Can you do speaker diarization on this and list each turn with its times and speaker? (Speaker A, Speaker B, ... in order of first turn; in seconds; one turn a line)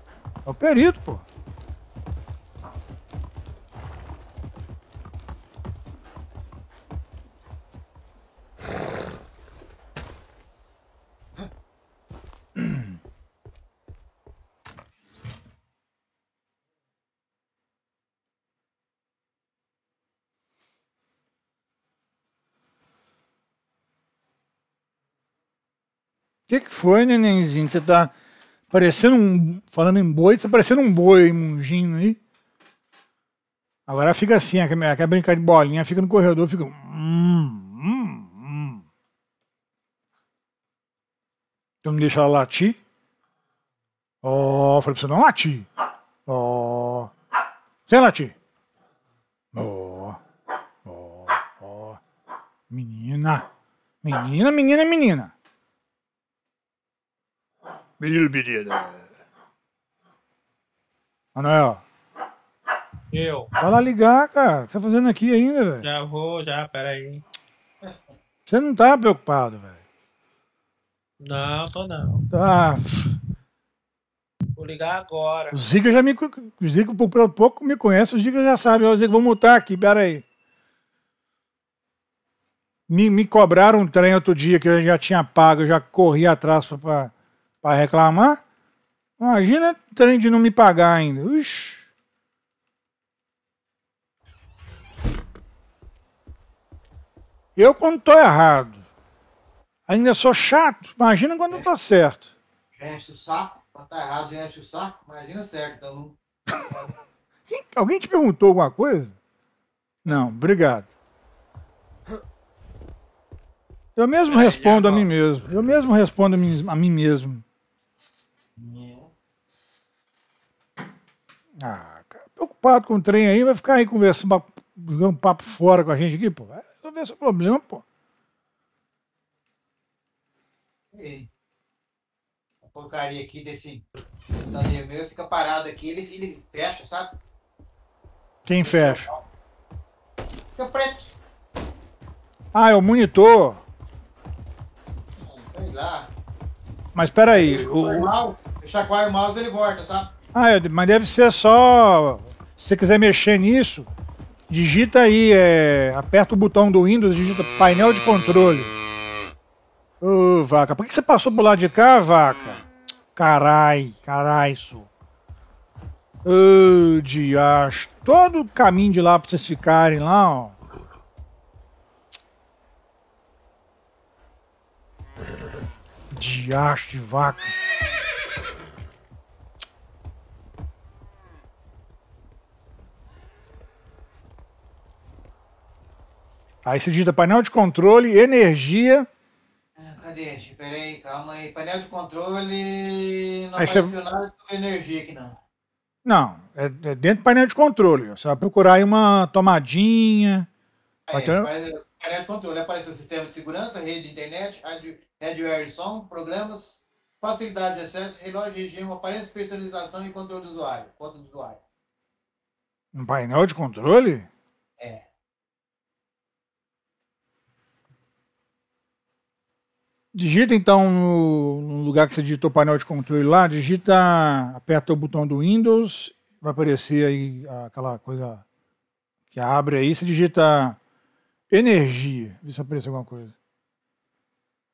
Speaker A: 0.4-1.2
Speaker A: 12.6-12.8
Speaker A: 26.5-28.1
Speaker A: 28.7-32.2
Speaker A: 33.9-38.8
Speaker A: 41.8-42.8
Speaker A: 44.2-45.7
Speaker A: 46.2-47.1
Speaker A: 47.9-48.3
Speaker A: 49.5-50.2
Speaker A: 50.8-52.0
Speaker A: 52.7-53.5
Speaker A: 54.0-55.3
Speaker A: 58.0-59.1
Speaker A: 61.3-61.8
Speaker B: 63.1-63.5
Speaker A: 63.6-65.9
Speaker B: 65.8-67.2
Speaker A: 68.5-69.8
Speaker B: 71.2-72.3
Speaker A: 72.3-73.2
Speaker B: 74.5-75.6
Speaker A: 75.5-80.2
Speaker A: 82.9-88.4
Speaker A: 89.2-91.9
Speaker A: 97.5-98.8
Speaker A: 99.9-102.3
Speaker C: 102.8-106.2
Speaker A: 107.5-109.1
Speaker A: 110.0-110.9
Speaker A: 114.0-117.4
Speaker B: 114.3-115.1
Speaker C: 118.6-119.1
Speaker A: 121.6-127.8
Speaker C: 130.9-131.3
Speaker C: 132.6-133.8
Speaker C: 134.4-137.2
Speaker A: 138.4-139.1
Speaker C: 138.6-139.2
Speaker C: 140.6-141.1
Speaker A: 142.5-143.6
Speaker C: 145.2-146.1
Speaker A: 146.9-148.1
Speaker C: 147.3-150.1
Speaker A: 150.3-153.9
Speaker A: 154.5-158.7
Speaker A: 160.0-164.9
Speaker A: 166.2-170.6
Speaker A: 176.1-177.5
Speaker A: 186.6-189.1
Speaker C: 189.8-195.4
Speaker A: 193.6-193.9
Speaker A: 196.0-200.5
Speaker C: 201.1-211.6
Speaker A: 201.1-201.5
Speaker A: 212.9-214.3
Speaker C: 214.8-215.1
Speaker A: 220.1-228.4
Speaker A: 229.3-230.8
Speaker A: 231.5-233.3